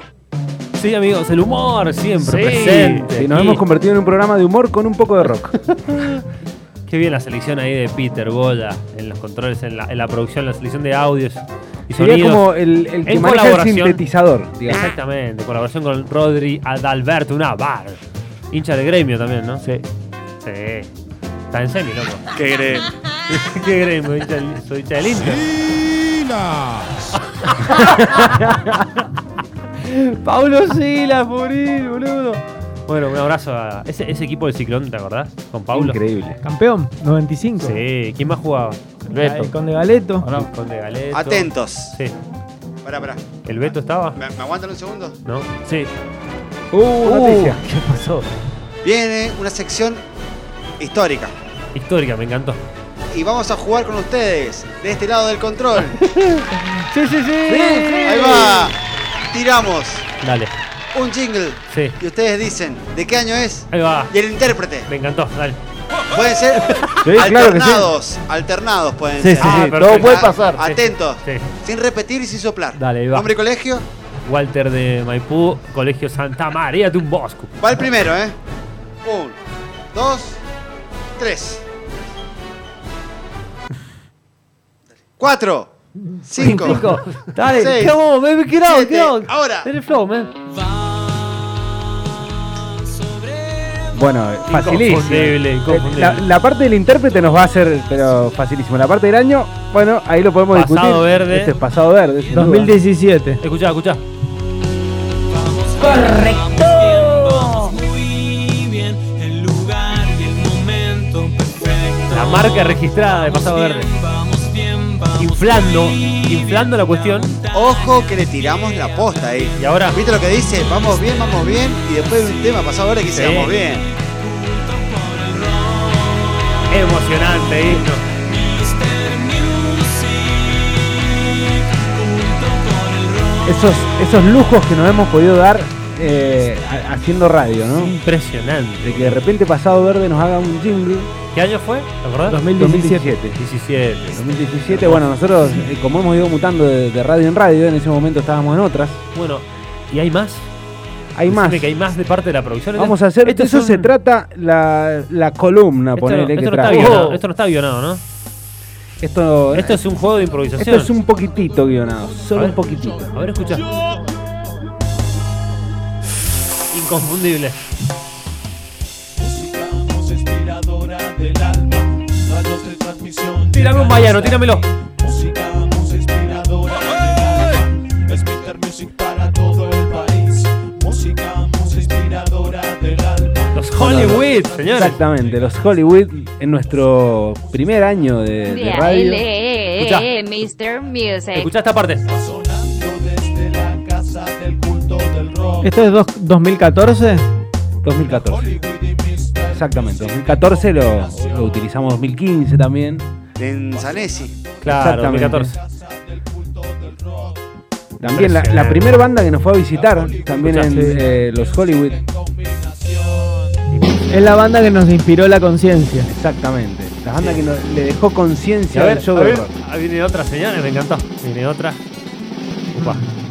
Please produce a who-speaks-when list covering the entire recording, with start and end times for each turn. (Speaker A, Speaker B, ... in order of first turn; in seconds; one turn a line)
Speaker A: 0.8-3.6
Speaker B: 2.2-3.1
Speaker C: 3.1-5.6
Speaker A: 5.7-6.2
Speaker A: 6.9-12.5
Speaker C: 11.9-14.9
Speaker A: 13.1-14.0
Speaker A: 14.7-19.7
Speaker A: 20.4-20.9
Speaker A: 21.5-22.3
Speaker D: 22.4-22.9
Speaker A: 23.3-25.7
Speaker A: 27.3-28.6
Speaker C: 28.2-28.7
Speaker A: 29.8-36.0
Speaker C: 35.7-36.4
Speaker E: 36.4-37.8
Speaker A: 37.6-38.8
Speaker B: 39.1-39.5
Speaker E: 39.1-40.3
Speaker B: 40.2-40.5
Speaker A: 40.3-42.1
Speaker D: 41.1-42.0
Speaker D: 42.8-45.2
Speaker A: 43.4-44.2
Speaker A: 45.2-45.9
Speaker C: 46.7-47.6
Speaker B: 47.4-48.2
Speaker D: 48.8-50.0
Speaker D: 50.8-51.3
Speaker A: 51.7-52.6
Speaker D: 53.1-56.1
Speaker E: 56.3-58.7
Speaker A: 57.5-58.2
Speaker D: 58.0-58.8
Speaker D: 59.3-60.0
Speaker A: 60.2-60.5
Speaker D: 60.9-64.9
Speaker A: 61.7-62.0
Speaker A: 63.7-64.2
Speaker A: 64.8-65.6
Speaker D: 66.1-73.8
Speaker C: 67.0-67.9
Speaker E: 69.2-69.5
Speaker A: 69.4-71.5
Speaker C: 69.4-69.7
Speaker B: 69.7-70.6
Speaker A: 72.8-73.3
Speaker A: 74.2-77.5
Speaker D: 77.6-78.4
Speaker D: 79.0-79.4
Speaker D: 79.9-80.4
Speaker D: 81.2-81.6
Speaker D: 85.2-85.7
Speaker D: 86.2-86.8
Speaker A: 86.4-90.3
Speaker D: 87.4-88.0
Speaker D: 88.6-89.7
Speaker C: 93.9-102.8
Speaker A: 94.5-96.3
Speaker A: 100.5-101.6
Speaker E: 102.3-103.4
Speaker A: 103.4-104.0
Speaker B: 105.3-119.3
Speaker F: 106.9-107.2
Speaker A: 112.1-113.9
Speaker A: 115.2-117.3
Speaker D: 117.5-123.9
Speaker A: 119.4-120.0
Speaker A: 123.1-123.6
Speaker B: 123.8-126.7
Speaker A: 126.7-128.1
Speaker B: 128.2-133.9
Speaker C: 133.4-137.9
Speaker A: 137.7-139.3
Speaker C: 138.8-141.1
Speaker A: 141.3-142.4
Speaker E: 142.2-143.2
Speaker C: 142.6-143.4
Speaker A: 143.4-145.1
Speaker C: 144.1-149.0
Speaker A: 149.1-150.5
Speaker C: 151.2-151.7
Speaker A: 151.3-153.9
Speaker C: 152.8-157.1
Speaker A: 155.9-158.0
Speaker B: 156.7-157.2
Speaker C: 159.0-159.8
Speaker A: 159.5-160.9
Speaker C: 160.6-163.1
Speaker A: 162.3-163.7
Speaker A: 166.7-167.7
Speaker B: 169.7-170.2
Speaker B: 170.9-171.6
Speaker B: 172.7-173.3
Speaker A: 173.5-174.7
Speaker B: 176.6-177.7
Speaker B: 178.4-178.9
Speaker B: 179.8-180.2
Speaker B: 181.1-182.2
Speaker A: 183.5-185.0
Speaker C: 183.8-189.2
Speaker F: 188.5-191.5
Speaker A: 189.8-190.1
Speaker A: 191.3-192.2
Speaker E: 195.6-197.2
Speaker C: 197.8-198.6
Speaker C: 199.5-203.1
Speaker D: 203.4-204.4
Speaker A: 204.6-205.6
Speaker C: 204.6-205.6
Speaker C: 208.0-212.1
Speaker A: 208.0-209.1
Speaker A: 210.3-210.9
Speaker E: 210.6-211.1
Speaker E: 214.1-216.1
Speaker C: 216.1-219.5
Speaker A: 217.1-217.4
Speaker A: 218.7-221.8
Speaker A: 222.7-223.1